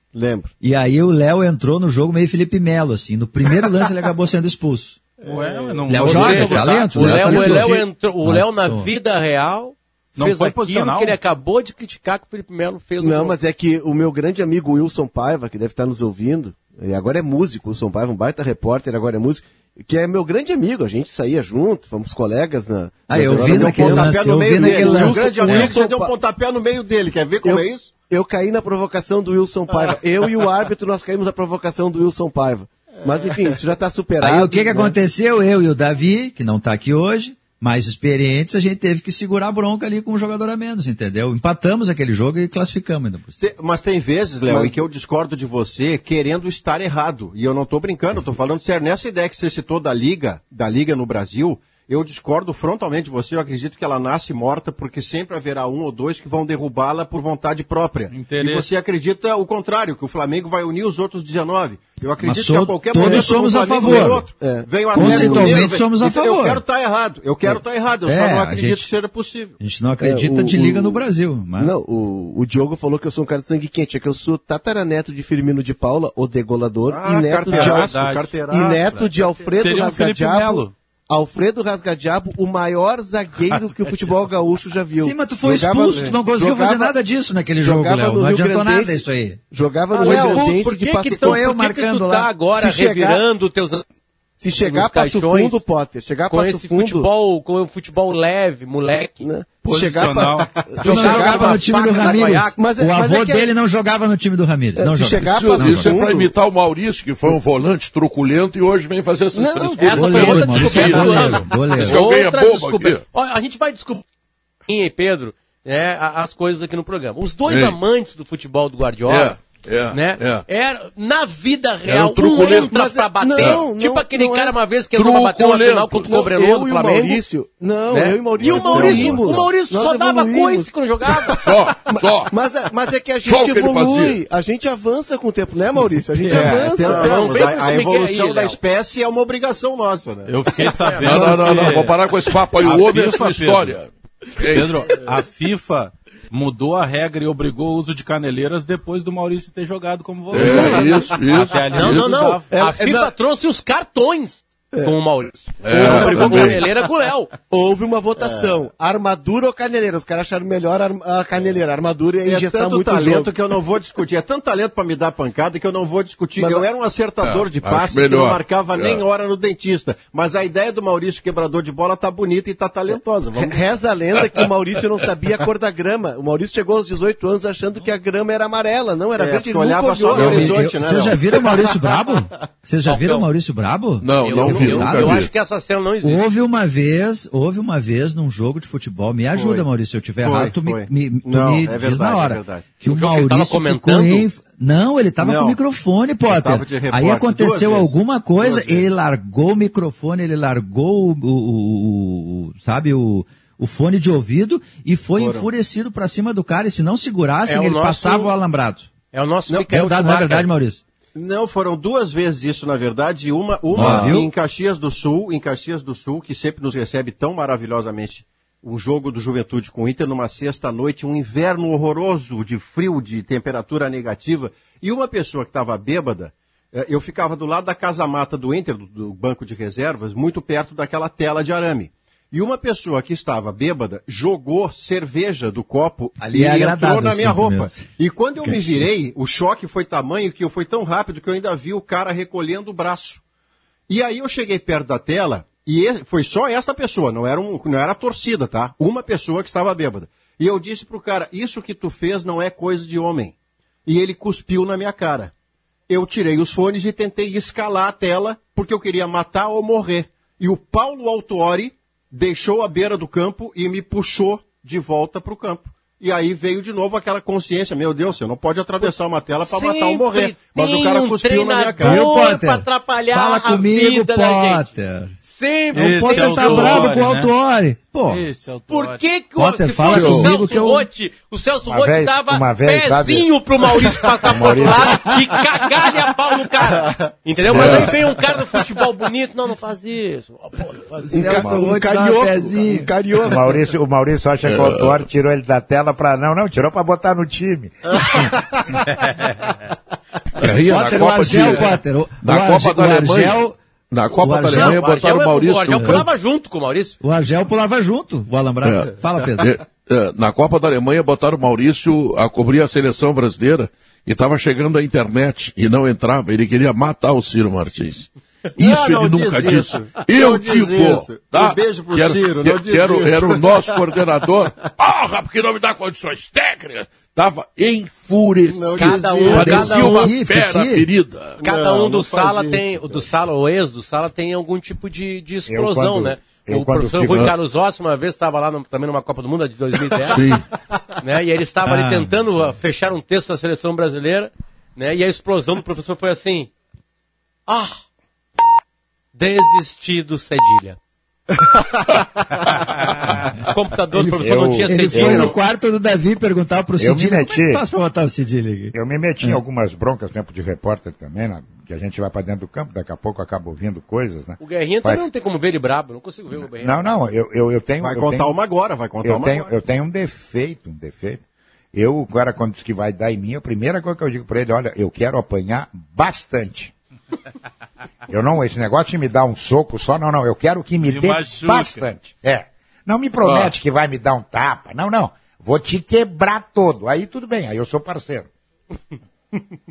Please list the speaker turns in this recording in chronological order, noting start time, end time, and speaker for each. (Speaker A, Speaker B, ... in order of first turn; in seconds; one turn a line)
Speaker A: 0.1-0.5
Speaker B: 0.6-5.0
Speaker C: 5.2-7.6
Speaker A: 5.3-5.8
Speaker B: 5.9-8.9
Speaker D: 6.0-13.4
Speaker E: 6.0-7.2
Speaker C: 10.2-11.2
Speaker A: 13.0-26.1
Speaker B: 23.1-25.7
Speaker F: 23.2-27.9
Speaker A: 27.4-35.0
Speaker F: 33.0-33.5
Speaker B: 34.2-43.5
Speaker F: 43.4-69.5
Speaker A: 44.5-44.8
Speaker C: 58.1-58.7
Speaker B: 62.2-64.2
Speaker A: 63.0-63.3
Speaker A: 63.8-65.6
Speaker B: 64.9-66.6
Speaker B: 68.0-68.9
Speaker B: 69.6-71.7
Speaker A: 70.0-71.0
Speaker A: 71.6-78.0
Speaker F: 76.9-79.5
Speaker C: 77.5-78.4
Speaker A: 78.5-86.9
Speaker C: 79.5-80.7
Speaker C: 83.4-84.3
Speaker B: 85.0-89.4
Speaker A: 87.6-91.4
Speaker D: 89.9-93.8
Speaker B: 90.0-90.5
Speaker B: 91.2-92.3
Speaker A: 92.5-93.2
Speaker A: 94.4-97.1
Speaker D: 94.5-95.6
Speaker D: 96.3-99.2
Speaker A: 99.2-103.5
Speaker C: 99.6-100.5
Speaker B: 100.8-105.9
Speaker D: 100.8-102.6
Speaker A: 104.8-106.3
Speaker E: 105.2-113.0
Speaker A: 109.3-110.3
Speaker D: 109.8-114.0
Speaker B: 109.9-112.0
Speaker D: 114.7-119.4
Speaker E: 117.5-117.8
Speaker E: 119.1-120.4
Speaker D: 119.9-127.2
Speaker E: 121.8-122.7
Speaker A: 122.6-124.6
Speaker E: 123.4-123.6
Speaker E: 124.9-126.2
Speaker A: 126.0-137.5
Speaker D: 127.9-131.4
Speaker F: 128.5-129.0
Speaker E: 128.8-129.2
Speaker E: 131.3-132.3
Speaker E: 133.2-134.2
Speaker F: 136.2-140.3
Speaker D: 136.8-138.6
Speaker E: 140.3-144.9
Speaker C: 140.6-141.9
Speaker D: 140.7-141.7
Speaker C: 142.6-143.8
Speaker C: 144.4-152.5
Speaker E: 150.3-152.2
Speaker A: 150.4-151.0
Speaker D: 151.6-157.3
Speaker A: 152.5-153.1
Speaker A: 154.7-155.0
Speaker E: 155.6-156.7
Speaker A: 155.7-156.8
Speaker A: 157.5-163.3
Speaker F: 158.2-158.5
Speaker F: 162.2-173.6
Speaker A: 166.4-166.7
Speaker E: 167.2-169.0
Speaker A: 172.9-180.7
Speaker F: 179.1-181.9
Speaker B: 180.1-185.2
Speaker D: 182.8-183.2
Speaker E: 184.0-185.3
Speaker D: 184.2-186.2
Speaker B: 186.0-208.9
Speaker F: 189.3-189.7
Speaker F: 190.2-192.7
Speaker D: 192.8-194.3
Speaker F: 195.2-195.6
Speaker F: 196.2-198.9
Speaker F: 205.2-205.5
Speaker D: 207.4-208.3
Speaker D: 209.1-210.5
Speaker B: 209.6-210.8
Speaker F: 211.1-243.2
Speaker B: 213.7-214.3
Speaker B: 236.2-237.9
Speaker B: 238.4-238.9
Speaker F: 243.9-255.3
Speaker F: 255.9-272.1
Speaker D: 268.8-274.7
Speaker B: 271.8-275.1
Speaker D: 275.2-276.9
Speaker B: 275.7-278.2
Speaker C: 275.7-277.3
Speaker C: 278.1-279.0
Speaker D: 278.7-291.5
Speaker B: 279.4-280.9
Speaker E: 279.9-280.2
Speaker G: 281.6-283.3
Speaker G: 284.2-285.1
Speaker E: 287.5-288.0
Speaker B: 291.0-292.9
Speaker A: 291.1-293.6
Speaker G: 293.2-298.3
Speaker E: 294.4-295.0
Speaker E: 300.4-306.1
Speaker B: 300.7-303.6
Speaker B: 304.2-304.8
Speaker D: 304.5-307.0
Speaker B: 305.8-306.0
Speaker B: 307.0-309.6
Speaker E: 308.6-331.4
Speaker F: 318.5-323.7
Speaker F: 328.5-330.1
Speaker D: 328.7-330.0
Speaker B: 329.3-330.8
Speaker F: 331.4-333.1
Speaker D: 331.4-340.3
Speaker G: 335.5-337.3
Speaker E: 337.0-337.3
Speaker E: 340.0-340.4
Speaker D: 341.0-346.5
Speaker B: 341.6-342.2
Speaker D: 347.5-347.8
Speaker D: 349.1-350.8
Speaker D: 353.4-355.4
Speaker G: 353.9-355.3
Speaker B: 354.7-359.4
Speaker G: 356.8-357.6
Speaker G: 358.7-365.1
Speaker D: 364.4-366.9
Speaker G: 366.4-368.4
Speaker F: 367.8-369.5
Speaker G: 369.0-376.7
Speaker G: 378.1-388.3
Speaker C: 380.8-381.8